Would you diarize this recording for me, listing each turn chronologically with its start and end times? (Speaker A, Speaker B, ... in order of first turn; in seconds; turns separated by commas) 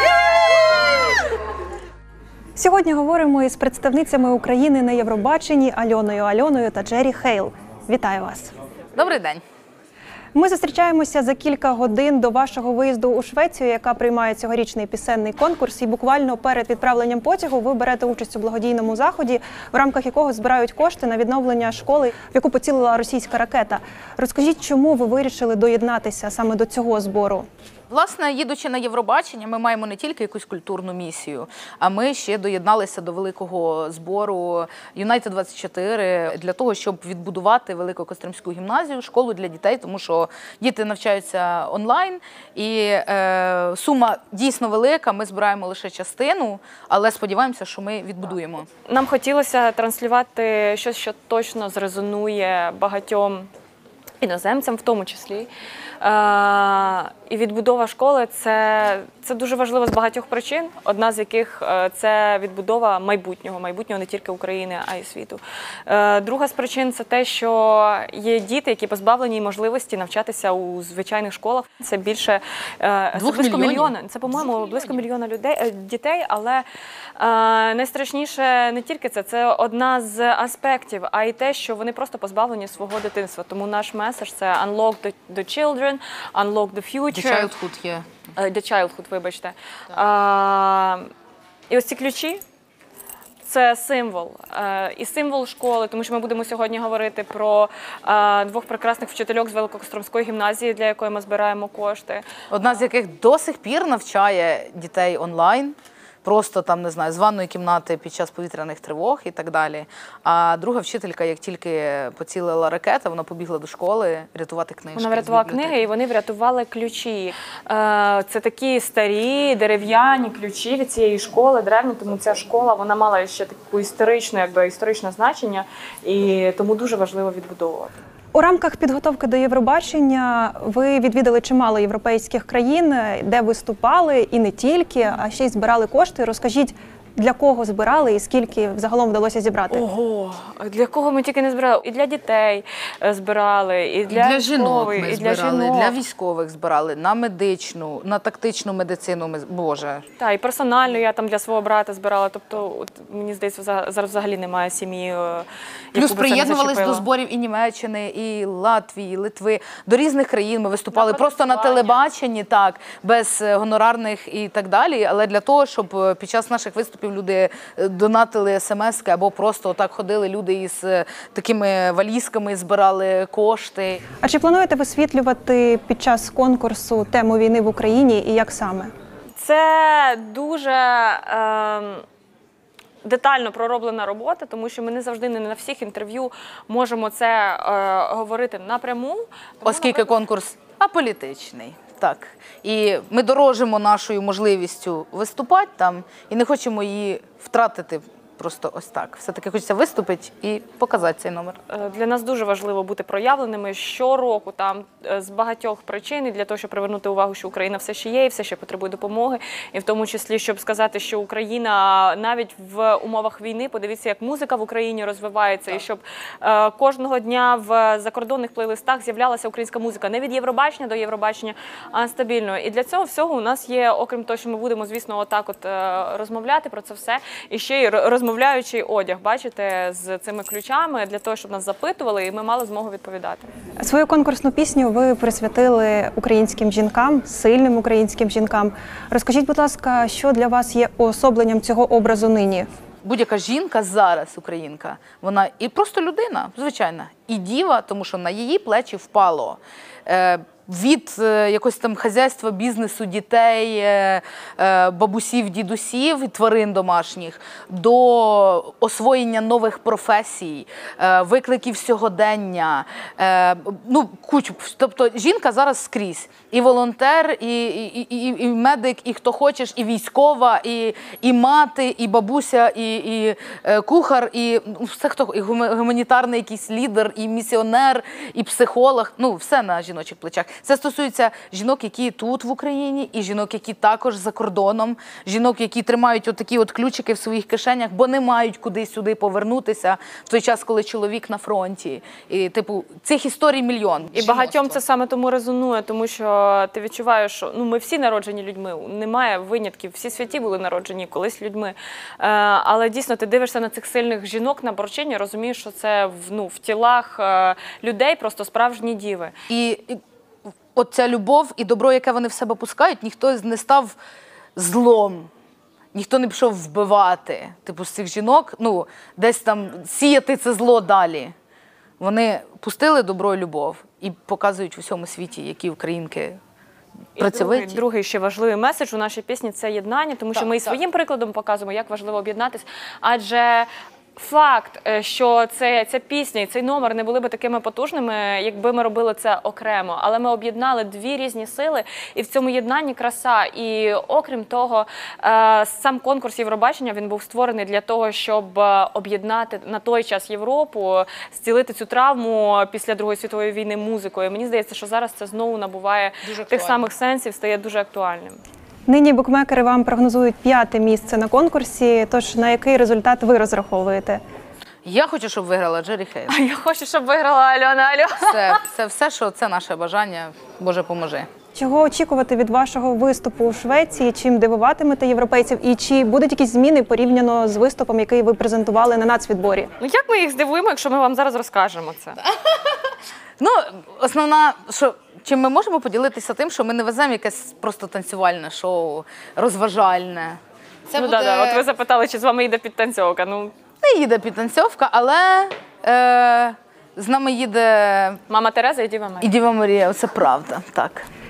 Speaker A: 2.6-8.5, Speaker B: 8.9-9.4, Speaker A: 10.3-27.5, Speaker B: 27.9-48.7, Speaker C: 48.9-53.5, Speaker C: 54.2-55.5, Speaker C: 56.0-76.7, Speaker B: 73.2-73.9, Speaker C: 77.2-87.5, Speaker B: 87.1-88.1, Speaker C: 88.4-91.1, Speaker C: 91.7-92.4, Speaker C: 93.4-102.2, Speaker B: 102.5-115.8, Speaker C: 115.0-127.9, Speaker A: 128.3-139.8, Speaker C: 139.7-146.0, Speaker B: 144.1-150.0, Speaker C: 150.2-157.1, Speaker B: 155.9-174.0, Speaker C: 160.9-162.0, Speaker A: 174.2-178.9, Speaker C: 179.4-182.1, Speaker C: 183.0-190.1, Speaker B: 189.7-201.6, Speaker C: 201.7-233.5, Speaker A: 233.8-242.7, Speaker B: 243.0-294.8, Speaker C: 294.1-309.3, Speaker B: 309.5-310.0, Speaker B: 310.8-314.0, Speaker B: 314.6-315.3, Speaker B: 315.9-321.3, Speaker B: 322.0-326.4, Speaker B: 327.2-327.8, Speaker C: 327.2-358.4, Speaker B: 330.3-330.8, Speaker B: 356.2-356.9, Speaker A: 358.9-364.2, Speaker B: 364.9-366.4, Speaker C: 366.3-368.6, Speaker B: 368.3-371.3, Speaker A: 371.6-379.7, Speaker C: 379.8-382.2, Speaker B: 382.5-382.8, Speaker B: 383.4-391.6, Speaker C: 390.9-393.5, Speaker B: 393.8-398.2, Speaker C: 398.3-399.3, Speaker B: 399.2-401.1